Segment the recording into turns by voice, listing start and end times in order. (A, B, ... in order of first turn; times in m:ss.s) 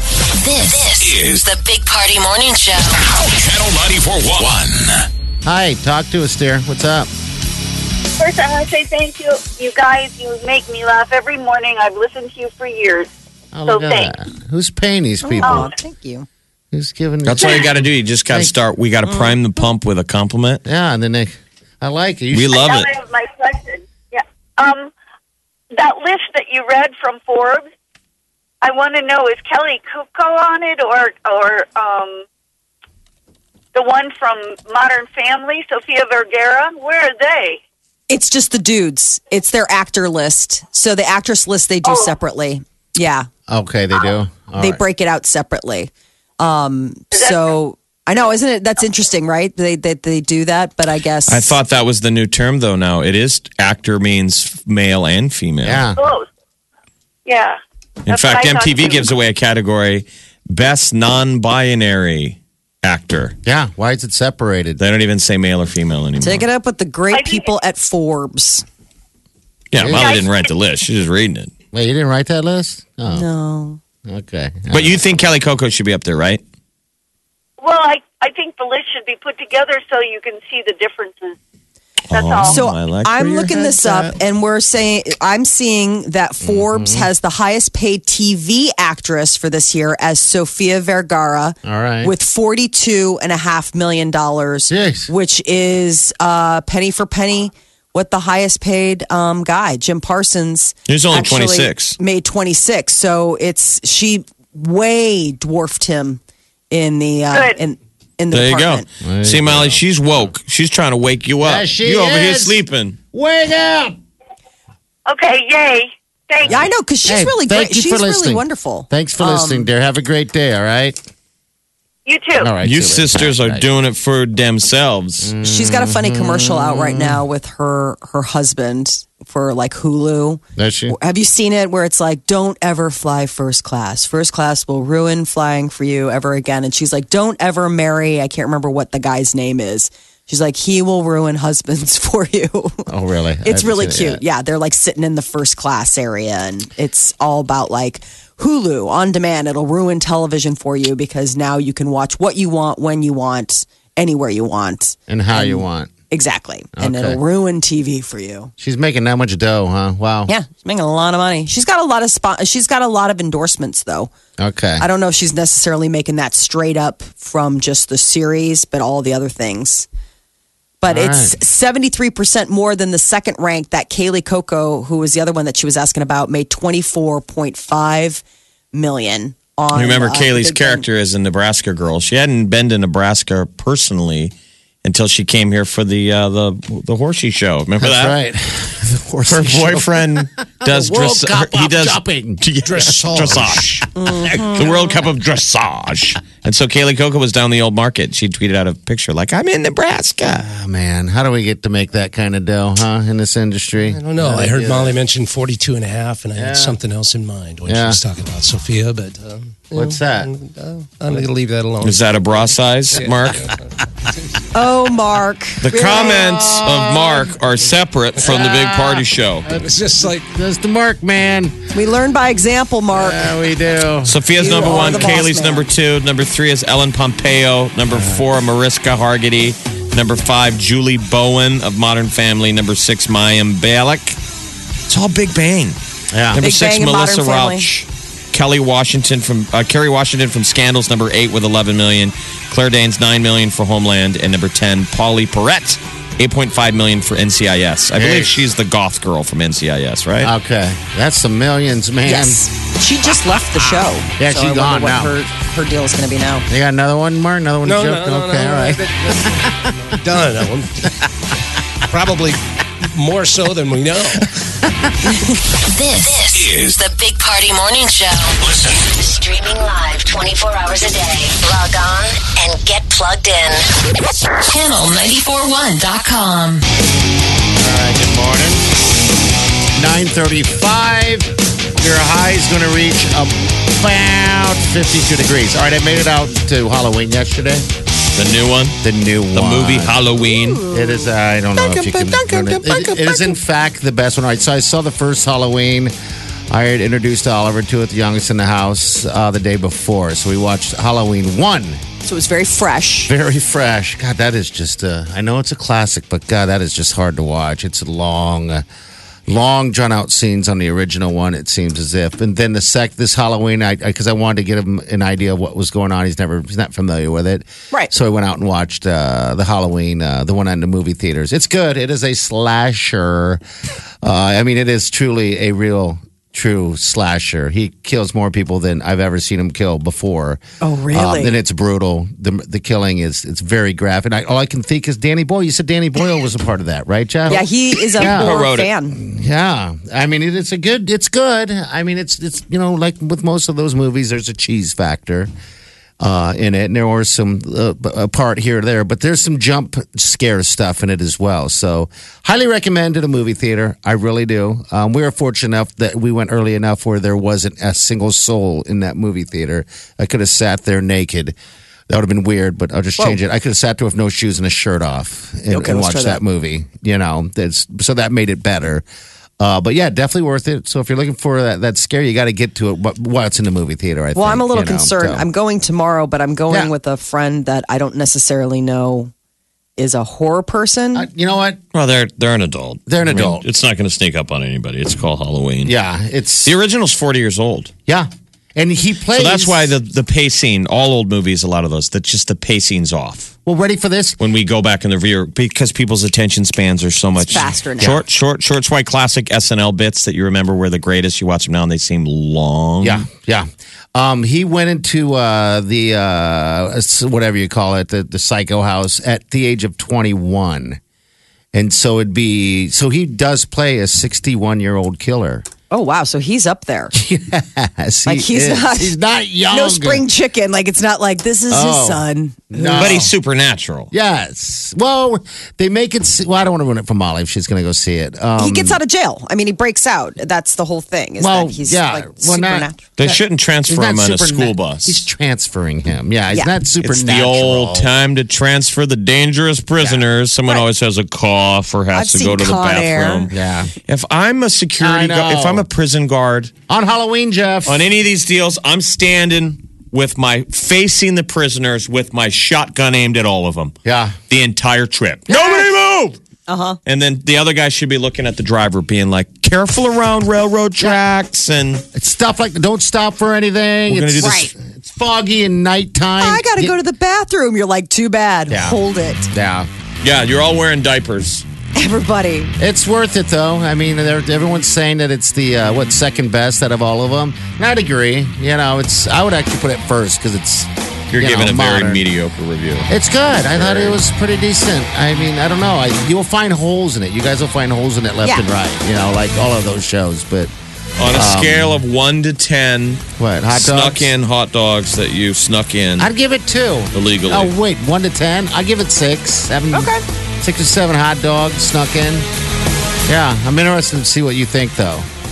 0:00.4-0:02.9 A
0:01.0-0:01.4 B
0:03.2-0:04.9 B
0:05.4-0:07.1 C
0:08.2-0:13.1 D
0:13.5-0:15.7 C
0:13.6-0:14.1 D
0:15.2-0:16.2 E
0:15.4-0:15.7 D
0:16.7-0:18.5 C
0:17.2-0:20.6 F
0:19.0-0:19.4 E
0:20.6-0:22.6 C
0:22.3-0:22.9 F
0:22.5-0:24.9 D
0:25.7-0:27.7 D
0:28.6-0:32.2 D
0:33.7-0:37.6 D
0:38.1-0:43.3 E
0:41.8-0:42.1 D
0:43.5-0:44.8 C
0:44.6-0:51.6 E
0:47.1-0:47.5 D
0:51.3-0:55.9 F
0:55.6-0:56.0 C
0:56.0-0:56.3 D
0:57.2-0:59.2 D
0:58.1-1:03.4 F
1:03.4-1:04.8 C
1:04.8-1:06.4 F
1:06.2-1:08.6 E
1:07.1-1:07.5 D
1:09.7-1:11.5 F
1:09.8-1:10.2 C
1:09.9-1:10.4 D
1:11.7-1:13.3 C
1:13.1-1:13.8 E
1:14.0-1:15.1 C
1:14.7-1:16.4 F
1:17.6-1:21.4 D
1:22.1-1:22.6 D
1:22.1-1:24.0 F
1:22.4-1:46.2 E
1:23.4-1:24.2 C
1:26.4-1:27.1 C
1:31.6-1:32.1 C
1:34.7-1:35.1 C
1:40.9-1:42.0 F
1:46.7-1:48.8 E
1:47.3-1:47.6 D
1:48.3-1:53.0 F
1:49.0-1:50.2 C
1:51.4-1:52.6 C
1:53.1-1:54.0 C
1:55.1-1:56.6 D
1:56.4-2:01.0 C
1:56.5-1:59.7 E
2:02.0-2:02.5 D
2:02.4-2:03.7 C
2:02.6-2:05.3 F
2:05.2-2:07.2 C
2:05.4-2:22.9 E
2:10.6-2:10.9 C
2:22.9-2:24.2 C
2:23.4-2:38.5 E
2:35.1-2:35.9 C
2:36.8-2:37.2 C
2:38.6-2:40.3 C
2:40.3-2:44.1 E
2:44.4-2:44.8 C
2:44.8-2:49.9 E
2:50.8-3:00.9 E
2:50.8-2:51.4 C
2:59.7-3:08.2 F
3:07.8-3:13.6 C
3:09.3-3:13.9 F
3:12.6-3:13.6 G
3:13.9-3:14.8 E
3:14.3-3:14.7 C
3:14.5-3:20.4 F
3:20.2-3:25.0 C
3:23.8-3:34.4 G
3:26.4-3:26.8 C
3:27.6-3:28.0 C
3:29.7-3:30.3 C
3:31.8-3:33.5 F
3:34.5-3:36.2 E
3:35.6-3:39.5 F
3:35.9-3:37.4 C
3:38.2-3:41.6 C
3:39.5-3:40.2 G
3:41.7-3:43.2 E
3:42.9-3:45.3 C
3:44.0-3:54.2 F
3:44.4-3:45.7 E
3:47.9-3:48.2 C
3:54.9-4:10.3 F
3:56.1-3:56.4 C
3:56.4-3:57.7 E
4:07.9-4:08.4 C
4:10.2-4:12.4 C
4:12.0-4:16.4 E
4:14.2-4:15.2 C
4:16.5-4:19.8 C
4:17.6-4:21.0 G
4:21.9-4:24.4 G
4:25.7-4:28.3 A
4:26.3-4:26.8 B
4:28.4-4:28.8 B
4:28.9-4:33.6 A
4:34.4-4:36.6 A
4:37.6-4:38.6 C
4:39.8-4:47.6 C
4:48.2-4:48.8 F
4:48.8-4:50.1 C
4:49.3-4:50.6 F
4:50.3-4:51.0 G
4:50.7-4:55.9 C
4:51.5-4:53.4 G
4:56.5-5:01.8 C
5:02.0-5:03.1 E
5:03.1-5:08.6 C
5:09.3-5:23.4 C
5:24.0-5:30.4 C
5:30.6-5:31.4 E
5:30.9-5:37.4 C
5:37.3-5:39.0 E
5:38.0-5:38.7 F
5:38.0-5:38.4 C
5:38.9-5:45.3 C
5:46.0-6:01.3 C
6:01.9-6:08.8 C
6:05.5-6:06.2 E
6:09.4-6:15.2 C
6:14.1-6:19.1 E
6:19.8-6:21.0 E
6:20.9-6:21.6 C
6:21.7-6:25.7 F
6:22.9-6:23.4 C
6:25.6-6:26.5 C
6:26.4-6:27.7 F
6:27.9-6:29.8 C
6:29.1-6:33.3 F
6:33.4-6:34.2 C
6:34.2-6:43.1 F
6:37.2-6:38.0 E
6:37.4-6:38.0 C
6:42.8-6:50.8 C
6:51.5-6:55.4 C
6:55.7-6:56.9 E
6:56.9-7:00.0 C
6:58.1-6:58.9 E
6:59.5-7:03.0 E
7:01.5-7:03.1 C
7:02.7-7:03.9 F
7:03.9-7:08.8 C
7:08.4-7:12.8 E
7:11.2-7:17.9 C
7:13.0-7:15.0 F
7:16.3-7:16.5 E
7:16.8-7:26.5 F
7:19.8-7:20.1 C
7:21.9-7:23.3 E
7:23.3-7:23.7 C
7:24.8-7:25.7 C
7:26.7-7:27.8 C
7:27.6-7:33.8 F
7:33.8-7:34.2 C
7:34.3-7:36.2 F
7:35.3-7:35.7 E
7:36.5-7:36.8 E
7:36.8-7:41.8 F
7:41.9-7:46.7 C
7:43.9-7:44.5 F
7:44.2-7:44.5 E
7:46.2-7:49.3 E
7:48.5-7:48.8 C
7:49.3-7:49.7 C
7:50.0-7:51.4 F
7:51.7-7:52.5 E
7:52.6-8:02.0 C
8:01.1-8:04.0 F
8:02.9-8:10.5 C
8:11.0-8:16.1 F
8:11.1-8:11.8 C
8:13.2-8:14.1 C
8:16.0-8:22.3 C
8:16.9-8:17.5 F
8:19.7-8:20.0 E
8:23.1-8:25.1 C